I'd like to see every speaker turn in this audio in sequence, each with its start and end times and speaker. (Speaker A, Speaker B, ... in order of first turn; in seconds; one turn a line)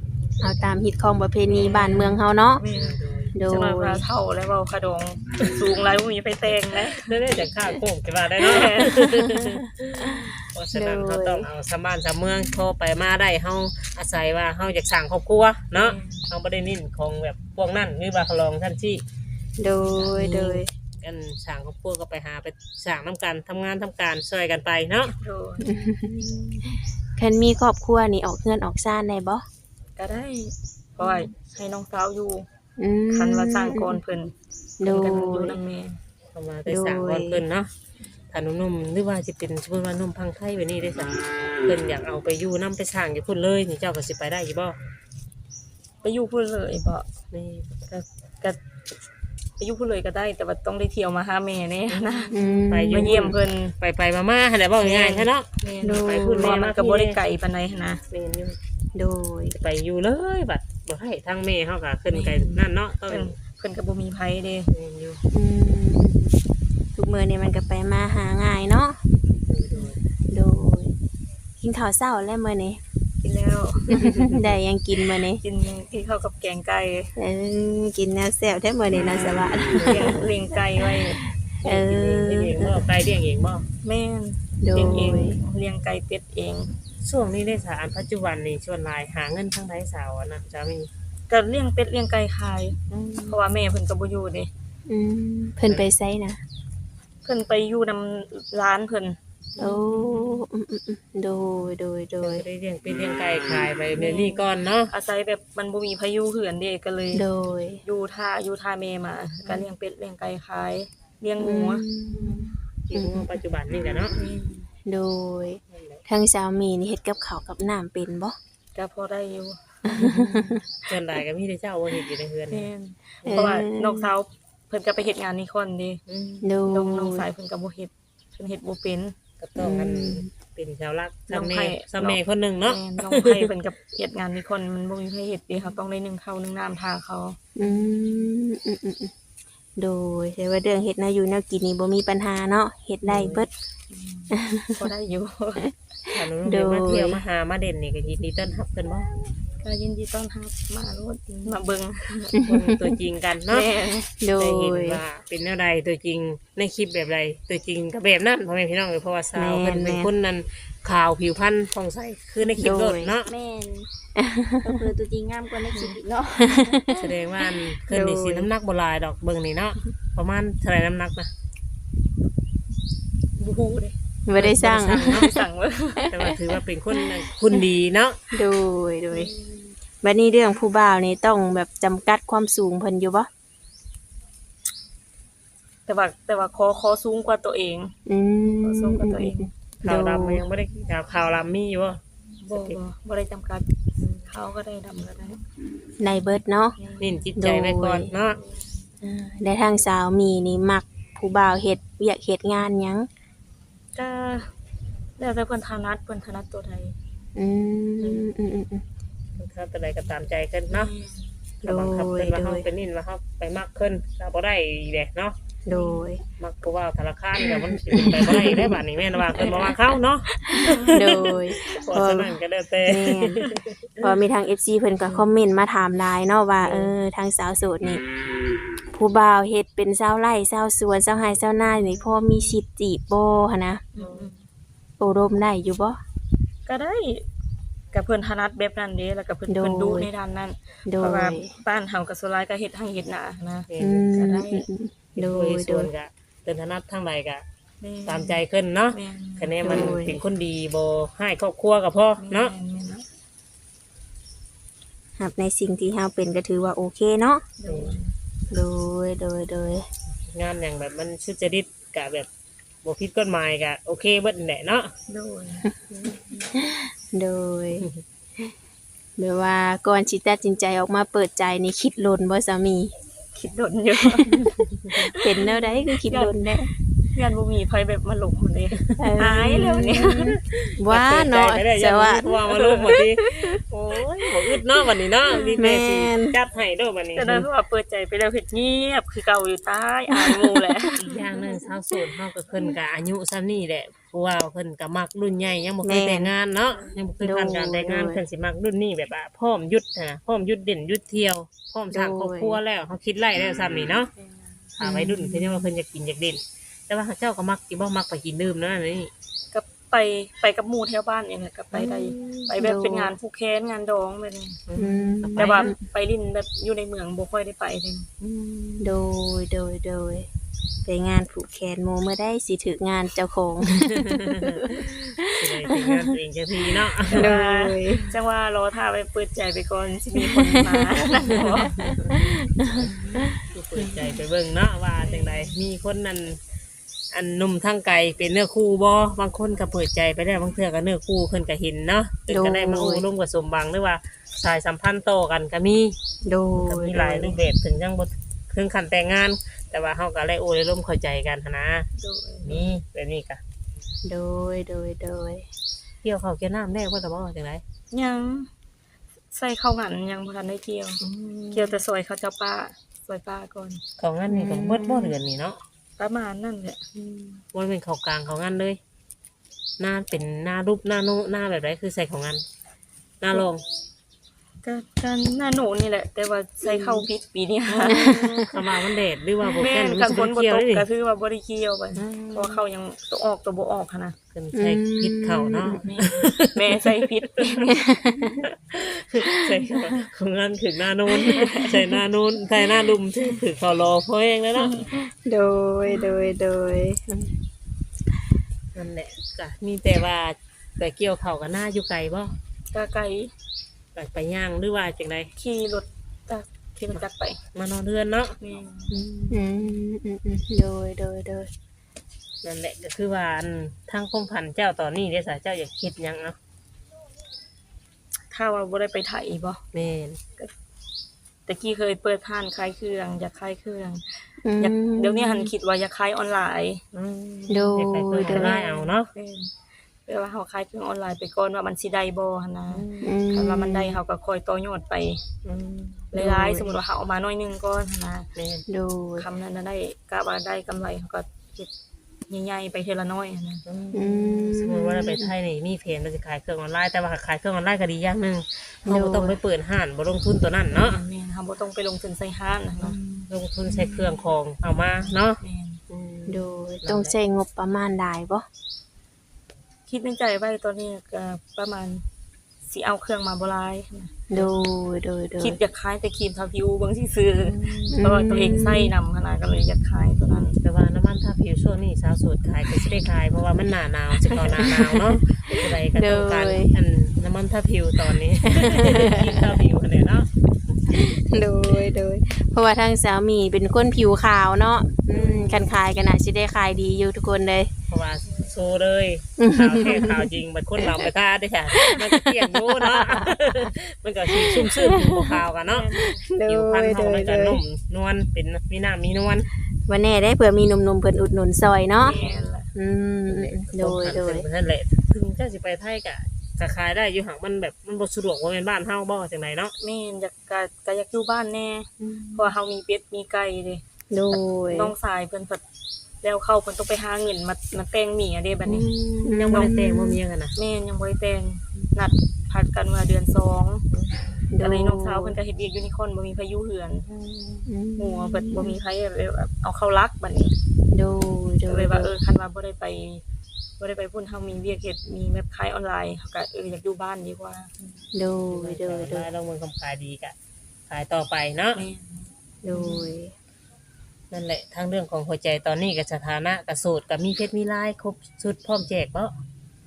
Speaker A: 0.4-2.6
Speaker B: 1.5-7.1
Speaker C: 2.6-3.3
Speaker A: 3.3-4.0
Speaker C: 7.0-19.0
Speaker B: 8.4-9.2
Speaker A: 9.9-11.5
Speaker B: 15.7-16.3
Speaker A: 19.6-20.7
Speaker C: 19.8-25.1
Speaker B: 25.2-26.7
Speaker A: 25.6-26.3
Speaker A: 27.1-29.4
Speaker B: 30.0-32.5
Speaker A: 32.8-34.0
Speaker B: 33.1-36.0
Speaker A: 34.8-35.6
Speaker C: 36.3-37.7
Speaker A: 36.7-37.4
Speaker C: 38.3-44.8
Speaker B: 46.0-47.0
Speaker C: 47.3-48.0
Speaker B: 49.6-53.7
Speaker C: 51.9-57.2
Speaker A: 52.3-53.3
Speaker B: 54.8-58.0
Speaker A: 55.8-56.5
Speaker C: 58.1-58.6
Speaker A: 58.9-59.5
Speaker C: 59.5-63.3
Speaker B: 62.1-64.7
Speaker C: 64.7-65.2
Speaker A: 65.3-66.4
Speaker A: 66.9-69.0
Speaker C: 69.5-70.0
Speaker A: 70.3-70.9
Speaker A: 71.6-72.8
Speaker B: 73.2-74.0
Speaker C: 73.9-74.6
Speaker A: 74.0-75.4
Speaker B: 75.3-77.1
Speaker A: 77.2-80.2
Speaker B: 79.7-81.2
Speaker C: 79.7-80.0
Speaker A: 81.6-82.8
Speaker C: 81.6-83.6
Speaker B: 83.8-86.7
Speaker A: 84.6-85.4
Speaker C: 87.0-90.9
Speaker B: 91.3-94.5
Speaker C: 92.9-93.3
Speaker A: 94.9-96.4
Speaker B: 97.2-100.4
Speaker A: 99.6-102.4
Speaker C: 102.2-104.9
Speaker B: 104.0-107.2
Speaker A: 107.1-107.8
Speaker B: 107.8-112.5
Speaker A: 111.4-113.3
Speaker C: 112.9-114.2
Speaker B: 114.1-114.7
Speaker A: 114.8-118.3
Speaker C: 115.7-116.0
Speaker B: 118.7-119.6
Speaker A: 119.9-120.5
Speaker C: 120.0-122.7
Speaker B: 122.5-126.0
Speaker A: 123.2-124.1
Speaker C: 126.1-126.5
Speaker A: 126.4-127.3
Speaker B: 126.7-129.1
Speaker C: 129.4-133.5
Speaker A: 129.6-130.3
Speaker B: 131.3-138.3
Speaker A: 137.6-139.1
Speaker A: 139.8-143.5
Speaker C: 143.0-143.4
Speaker B: 143.9-145.7
Speaker A: 144.3-144.8
Speaker A: 146.1-147.2
Speaker C: 146.1-149.2
Speaker B: 149.6-152.3
Speaker A: 152.3-152.9
Speaker C: 152.4-153.7
Speaker B: 153.5-154.1
Speaker A: 154.2-155.0
Speaker C: 154.4-163.3
Speaker A: 159.3-160.1
Speaker A: 162.6-163.2
Speaker D: 163.3-163.9
Speaker A: 164.2-164.8
Speaker D: 164.6-166.9
Speaker B: 165.1-166.1
Speaker A: 166.4-167.0
Speaker C: 166.9-171.3
Speaker A: 167.9-168.5
Speaker B: 173.4-173.9
Speaker A: 174.2-175.4
Speaker C: 174.3-175.3
Speaker B: 175.1-176.2
Speaker C: 176.1-178.2
Speaker A: 178.3-179.3
Speaker B: 179.1-179.7
Speaker A: 180.0-183.3
Speaker B: 185.9-189.5
Speaker A: 188.1-190.4
Speaker C: 189.8-192.0
Speaker B: 192.4-193.7
Speaker C: 192.5-192.8
Speaker B: 194.2-195.4
Speaker A: 196.0-196.8
Speaker B: 196.8-197.2
Speaker C: 197.0-198.4
Speaker A: 197.4-198.1
Speaker B: 198.1-198.6
Speaker A: 199.0-203.1
Speaker B: 203.9-204.5
Speaker B: 205.2-206.9
Speaker A: 207.3-208.8
Speaker C: 209.4-210.9
Speaker B: 210.7-211.3
Speaker A: 211.6-212.7
Speaker C: 211.6-215.4
Speaker A: 215.7-216.2
Speaker B: 215.7-216.2
Speaker C: 216.4-224.1
Speaker A: 217.4-218.7
Speaker B: 220.5-220.9
Speaker A: 220.9-222.3
Speaker A: 222.9-223.4
Speaker A: 224.0-228.0
Speaker C: 226.6-226.9
Speaker A: 228.9-233.8
Speaker B: 233.9-234.4
Speaker C: 234.0-234.3
Speaker A: 235.0-236.0
Speaker B: 236.7-237.2
Speaker B: 237.9-244.7
Speaker A: 239.5-240.1
Speaker A: 240.8-241.6
Speaker C: 243.7-244.1
Speaker A: 243.8-245.9
Speaker C: 245.1-247.4
Speaker B: 247.8-248.4
Speaker C: 248.1-252.5
Speaker B: 248.9-250.0
Speaker A: 249.6-250.2
Speaker B: 252.2-253.1
Speaker A: 255.2-257.4
Speaker B: 257.6-258.1
Speaker C: 257.7-257.9
Speaker A: 258.5-259.9
Speaker C: 260.3-262.3
Speaker C: 262.8-264.9
Speaker B: 265.1-266.5
Speaker A: 266.5-267.9
Speaker A: 269.2-272.9
Speaker B: 273.3-274.4
Speaker C: 274.5-274.9
Speaker B: 274.9-276.5
Speaker A: 275.1-276.7
Speaker B: 277.1-280.4
Speaker A: 279.0-282.3
Speaker C: 280.4-287.5
Speaker B: 282.5-282.9
Speaker A: 282.9-283.3
Speaker B: 285.3-285.6
Speaker A: 285.5-286.4
Speaker B: 287.1-291.0
Speaker C: 291.0-304.1
Speaker A: 295.8-296.3
Speaker A: 297.2-298.2
Speaker A: 301.9-302.6
Speaker B: 304.1-304.7
Speaker C: 304.8-309.1
Speaker A: 304.8-305.7
Speaker B: 309.5-314.6
Speaker A: 311.7-313.1
Speaker C: 314.7-315.7
Speaker A: 314.8-315.8
Speaker B: 315.4-318.1
Speaker C: 318.2-319.0
Speaker A: 318.8-320.3
Speaker A: 320.8-326.0
Speaker C: 323.8-324.7
Speaker C: 325.3-327.3
Speaker B: 327.1-331.8
Speaker A: 327.1-328.1
Speaker C: 331.4-332.1
Speaker A: 331.8-334.2
Speaker C: 333.5-336.4
Speaker B: 335.0-335.6
Speaker C: 337.1-346.0
Speaker A: 342.3-343.0
Speaker A: 346.2-347.4
Speaker C: 346.6-351.9
Speaker B: 352.0-352.7
Speaker C: 352.4-353.4
Speaker A: 354.0-355.4
Speaker C: 356.0-357.6
Speaker B: 357.9-358.5
Speaker B: 359.3-363.8
Speaker C: 361.0-361.8
Speaker C: 364.0-365.6
Speaker A: 364.3-365.1
Speaker B: 366.0-367.4
Speaker C: 367.5-368.8
Speaker C: 369.8-372.4
Speaker C: 373.2-373.6
Speaker B: 374.6-378.5
Speaker C: 377.8-380.9
Speaker A: 377.9-378.4
Speaker B: 379.4-384.1
Speaker C: 381.9-382.6
Speaker C: 384.3-386.7
Speaker A: 384.5-385.8
Speaker B: 385.8-387.7
Speaker A: 387.6-388.4
Speaker C: 388.4-394.7
Speaker B: 391.1-391.8
Speaker B: 394.6-394.9
Speaker A: 394.9-397.3
Speaker C: 398.7-402.4
Speaker B: 402.7-403.3
Speaker C: 403.9-405.3
Speaker B: 405.4-407.4
Speaker C: 407.5-408.4
Speaker B: 408.4-409.8
Speaker A: 408.9-411.5
Speaker C: 412.4-416.4
Speaker B: 418.3-419.6
Speaker C: 419.7-420.2
Speaker B: 421.5-424.0
Speaker A: 424.4-425.5
Speaker B: 424.6-426.8
Speaker C: 426.9-429.1
Speaker A: 427.5-428.5
Speaker B: 428.2-429.5
Speaker B: 430.1-435.2
Speaker C: 432.7-433.1
Speaker A: 433.0-434.0
Speaker C: 435.4-436.1
Speaker B: 436.1-438.3
Speaker A: 436.1-436.8
Speaker C: 438.4-438.6
Speaker A: 438.7-439.2
Speaker B: 439.2-441.7
Speaker B: 442.3-443.6
Speaker C: 443.7-451.0
Speaker A: 443.9-445.3
Speaker A: 448.9-449.4
Speaker B: 450.7-453.0
Speaker C: 453.3-457.1
Speaker B: 455.4-455.8
Speaker A: 456.3-458.4
Speaker B: 459.9-462.0
Speaker B: 462.6-464.2
Speaker A: 464.3-465.6
Speaker B: 465.4-470.6
Speaker A: 467.5-468.9
Speaker C: 470.6-480.3
Speaker A: 474.3-476.8
Speaker A: 478.5-479.5
Speaker A: 480.9-487.7
Speaker C: 485.1-485.6
Speaker C: 487.9-499.5
Speaker B: 488.2-488.5
Speaker A: 489.4-491.1
Speaker A: 491.7-493.5
Speaker A: 494.3-495.3
Speaker B: 495.6-496.2
Speaker A: 496.0-497.6
Speaker A: 499.9-502.1
Speaker B: 502.0-502.7
Speaker C: 502.0-502.4
Speaker A: 502.7-504.4
Speaker C: 503.3-509.7
Speaker B: 509.8-515.6
Speaker A: 512.0-512.5
Speaker A: 514.1-514.9
Speaker B: 516.2-518.9
Speaker A: 518.7-520.2
Speaker C: 519.2-520.5
Speaker B: 520.5-523.8
Speaker C: 523.9-524.2
Speaker A: 524.5-525.4
Speaker B: 524.6-527.0
Speaker A: 527.7-528.8
Speaker B: 528.0-530.5
Speaker A: 530.9-532.1
Speaker B: 531.7-533.2
Speaker B: 533.8-537.7
Speaker A: 538.1-539.2
Speaker C: 538.5-540.3
Speaker C: 540.9-541.8
Speaker B: 541.7-543.1
Speaker A: 542.6-543.3
Speaker C: 544.3-549.3